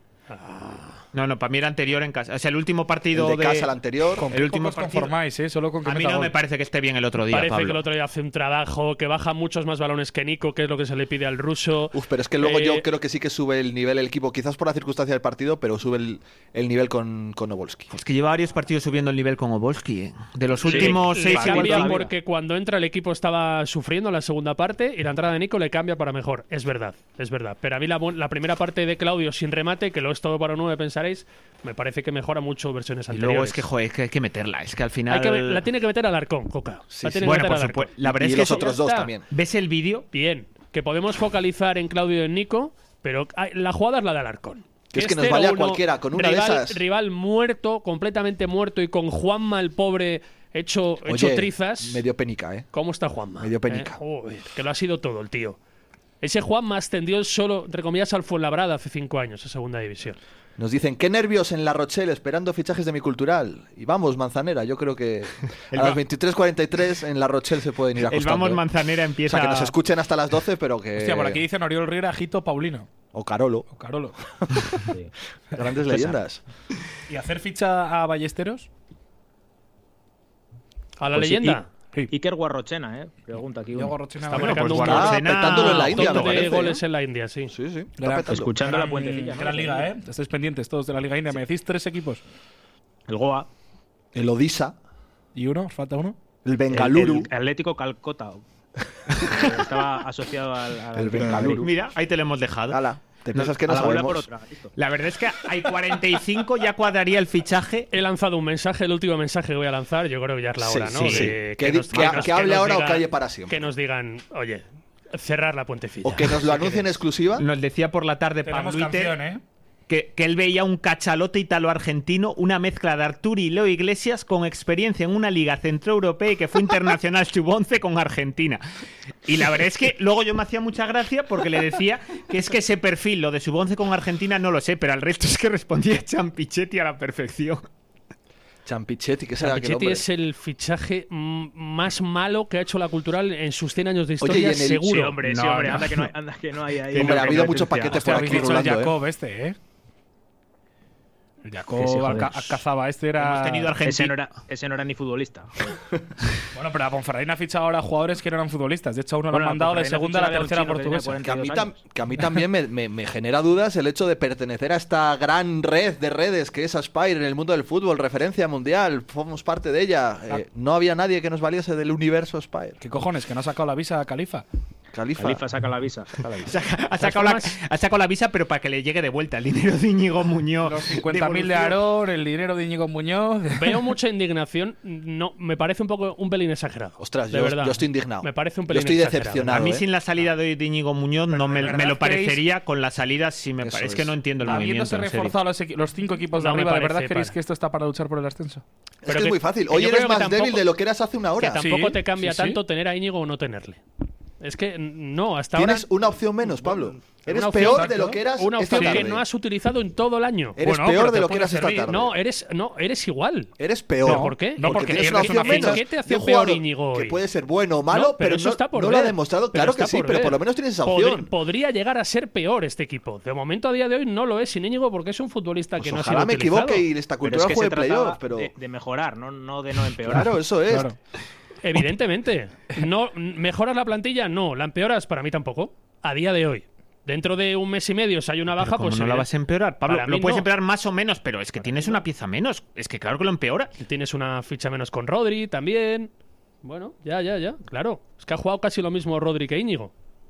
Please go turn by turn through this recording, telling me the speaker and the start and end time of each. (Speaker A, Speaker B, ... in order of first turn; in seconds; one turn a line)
Speaker A: 0.3-1.0
Speaker B: 1.1-3.7
Speaker C: 3.1-4.3
Speaker D: 4.2-6.3
Speaker B: 4.3-5.1
Speaker B: 5.8-7.8
Speaker A: 7.3-12.8
Speaker C: 11.9-17.9
Speaker B: 17.9-21.9
Speaker E: 20.6-22.1
Speaker A: 20.7-33.6
Speaker B: 33.1-35.6
Speaker A: 35.1-39.1
Speaker C: 36.9-37.4
Speaker B: 37.2-38.7
Speaker C: 38.0-39.2
Speaker B: 39.2-40.1
Speaker A: 40.1-52.0
Speaker C: 44.9-46.8
Speaker C: 51.0-52.7
Speaker A: 52.7-55.6
Speaker C: 53.4-54.0
Speaker A: 56.2-60.2
Speaker C: 60.6-68.6
Speaker B: 65.7-66.0
Speaker B: 68.1-69.7
Speaker C: 69.3-71.4
Speaker D: 71.0-72.9
Speaker C: 73.1-73.7
Speaker D: 73.7-74.2
Speaker C: 74.4-74.7
Speaker C: 75.5-76.4
Speaker D: 77.1-78.7
Speaker A: 81.0-81.7
Speaker D: 81.1-82.1
Speaker E: 82.1-84.0
Speaker D: 83.7-85.1
Speaker A: 84.2-87.5
Speaker B: 84.3-86.5
Speaker C: 84.8-86.8
Speaker C: 87.5-88.5
Speaker D: 88.0-92.2
Speaker E: 88.3-89.9
Speaker E: 93.1-93.5
Speaker C: 94.1-94.8
Speaker D: 95.3-96.2
Speaker C: 96.4-97.3
Speaker E: 96.7-98.4
Speaker E: 99.2-101.7
Speaker C: 100.9-101.7
Speaker B: 101.4-102.8
Speaker C: 102.7-104.3
Speaker E: 103.6-104.7
Speaker B: 104.8-107.9
Speaker A: 107.9-116.9
Speaker C: 110.6-113.7
Speaker B: 111.0-111.3
Speaker B: 111.9-112.3
Speaker C: 116.0-117.4
Speaker B: 117.4-119.1
Speaker D: 118.4-119.4
Speaker B: 119.9-128.6
Speaker B: 129.2-137.6
Speaker C: 138.7-140.0
Speaker A: 139.4-145.2
Speaker C: 144.2-145.0
Speaker E: 144.8-148.6
Speaker B: 145.2-146.1
Speaker C: 146.9-148.9
Speaker B: 146.9-147.5
Speaker D: 147.9-149.6
Speaker D: 151.4-153.7
Speaker E: 151.7-152.6
Speaker B: 153.2-154.2
Speaker E: 153.8-155.8
Speaker D: 156.5-161.2
Speaker E: 159.3-161.8
Speaker C: 161.2-172.8
Speaker D: 172.8-174.4
Speaker C: 174.9-175.4
Speaker E: 175.2-176.5
Speaker B: 176.4-181.8
Speaker A: 177.0-177.6
Speaker D: 180.6-183.8
Speaker A: 183.6-189.7
Speaker C: 187.0-189.8
Speaker B: 189.5-195.3
Speaker D: 191.3-192.4
Speaker C: 193.6-194.2
Speaker D: 194.4-198.6
Speaker A: 196.3-197.3
Speaker C: 199.0-201.6
Speaker A: 199.1-200.6
Speaker A: 201.4-203.8
Speaker D: 201.6-202.6
Speaker A: 204.4-205.9
Speaker C: 205.5-209.2
Speaker A: 207.2-210.6
Speaker D: 207.5-209.1
Speaker C: 210.6-212.2
Speaker D: 210.6-211.9
Speaker A: 211.8-213.5
Speaker C: 213.6-221.3
Speaker D: 214.0-215.8
Speaker A: 214.0-217.2
Speaker A: 217.9-226.8
Speaker C: 225.8-228.5
Speaker E: 227.2-230.3
Speaker C: 230.1-230.9
Speaker D: 230.1-230.9
Speaker A: 231.6-239.3
Speaker B: 238.6-243.7
Speaker A: 239.8-240.5
Speaker A: 243.8-246.1
Speaker A: 246.6-249.9